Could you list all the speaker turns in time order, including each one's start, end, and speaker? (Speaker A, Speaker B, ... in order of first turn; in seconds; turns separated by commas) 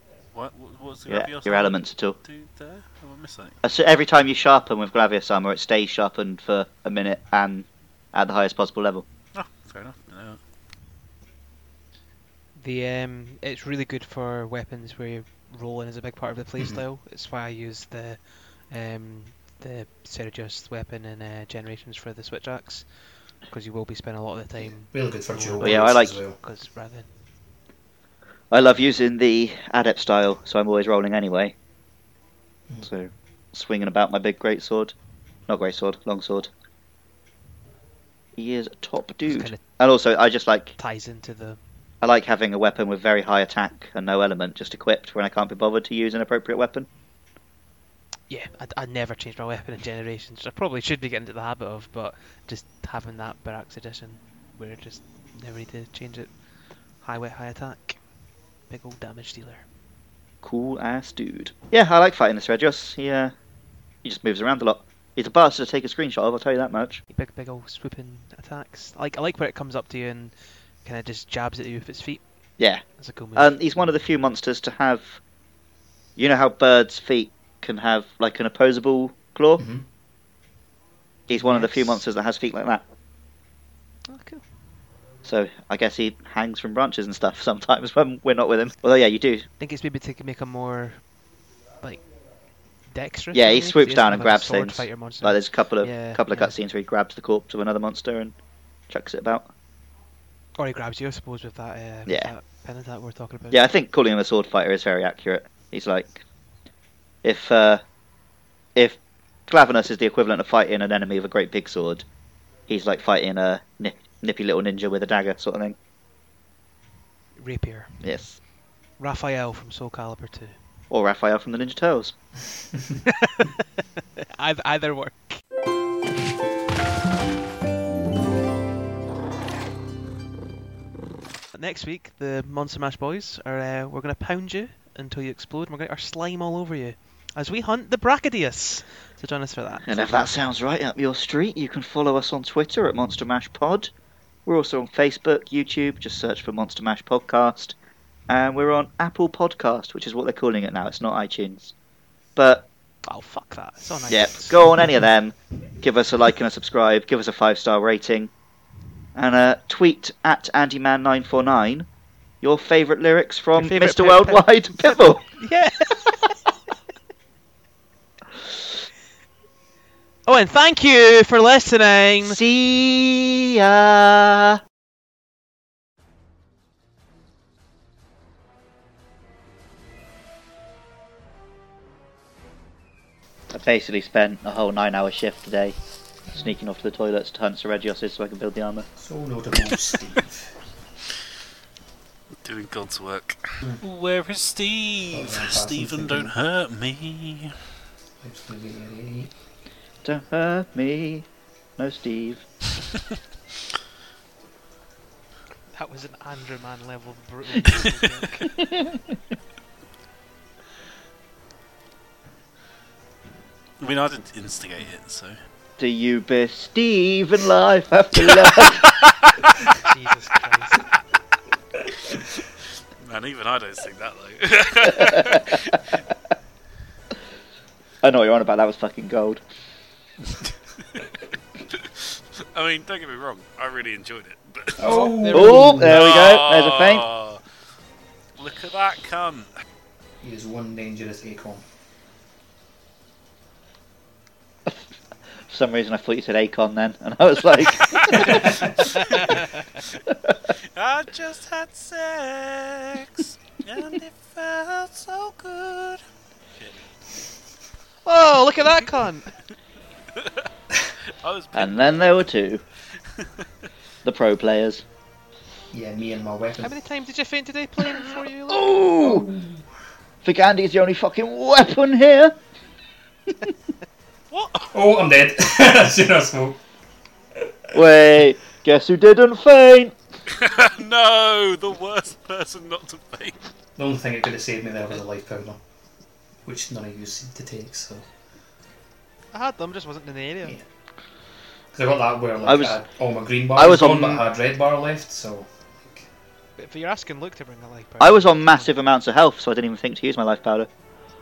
Speaker A: 0.3-3.5, Speaker B: 1.1-2.2, Speaker B: 3.6-9.0, Speaker A: 9.3-10.4, Speaker C: 12.5-27.2, Speaker D: 16.6-16.8, Speaker D: 24.9-26.4, Speaker B: 25.6-26.2, Speaker B: 28.5-31.5, Speaker B: 32.8-34.9, Speaker B: 35.5-36.5, Speaker B: 38.4-40.8, Speaker C: 39.2-39.6, Speaker C: 40.8-41.6, Speaker B: 42.0-46.9, Speaker C: 48.3-59.7, Speaker B: 60.4-63.3, Speaker B: 64.0-67.0, Speaker C: 67.1-73.8, Speaker B: 72.6-75.2, Speaker B: 76.2-79.7, Speaker D: 79.6-79.8, Speaker B: 81.3-82.8, Speaker C: 81.3-82.0, Speaker C: 84.1-84.5, Speaker B: 85.2-89.5, Speaker C: 89.6-91.2, Speaker C: 91.8-96.5, Speaker B: 93.3-98.3, Speaker B: 98.9-99.5, Speaker C: 100.5-103.7, Speaker B: 102.0-102.3, Speaker B: 103.5-106.2, Speaker B: 107.2-107.8, Speaker B: 108.8-112.0, Speaker B: 112.7-115.8, Speaker C: 117.3-118.4, Speaker B: 118.0-118.4, Speaker C: 119.0-120.6, Speaker B: 120.9-122.2, Speaker C: 124.4-125.4, Speaker C: 131.5-140.4, Speaker B: 139.8-143.9, Speaker B: 144.4-147.8, Speaker B: 148.3-151.7, Speaker B: 152.3-152.7, Speaker C: 153.0-154.9, Speaker B: 154.1-158.3, Speaker B: 159.1-161.9, Speaker B: 162.4-165.2, Speaker C: 163.6-166.5, Speaker C: 170.2-172.4, Speaker B: 172.2-174.6, Speaker B: 183.5-185.8, Speaker B: 186.3-188.9, Speaker D: 188.9-190.6, Speaker A: 192.4-197.5, Speaker D: 195.1-196.3, Speaker D: 198.2-199.3, Speaker B: 200.0-201.2, Speaker B: 201.8-202.4, Speaker C: 205.7-208.5, Speaker B: 208.4-209.1, Speaker A: 213.8-215.3, Speaker B: 215.8-218.9, Speaker A: 218.3-219.3, Speaker C: 219.8-220.8, Speaker A: 223.0-226.0, Speaker B: 228.0-229.4, Speaker A: 231.7-235.0, Speaker D: 234.8-236.0, Speaker C: 234.8-235.9, Speaker B: 235.3-237.0, Speaker A: 235.8-237.4, Speaker A: 238.4-239.5, Speaker D: 240.2-241.6, Speaker B: 245.4-248.6, Speaker A: 248.0-249.8, Speaker B: 250.1-250.3, Speaker A: 250.7-256.0, Speaker A: 256.5-256.9, Speaker C: 258.0-259.3, Speaker A: 260.2-260.5, Speaker A: 261.2-262.3, Speaker B: 261.5-262.6, Speaker A: 263.2-263.4, Speaker B: 264.0-264.8, Speaker D: 265.7-266.8, Speaker C: 266.6-268.9, Speaker B: 268.5-269.2, Speaker D: 268.9-269.7, Speaker B: 270.2-272.4, Speaker A: 274.3-274.8, Speaker D: 274.7-276.6, Speaker B: 277.7-279.9, Speaker A: 280.3-283.4, Speaker D: 283.8-285.6, Speaker D: 286.4-288.1, Speaker C: 289.3-290.6, Speaker D: 291.7-296.1, Speaker B: 292.4-292.8, Speaker B: 293.5-294.2, Speaker C: 296.6-298.8, Speaker B: 298.0-300.7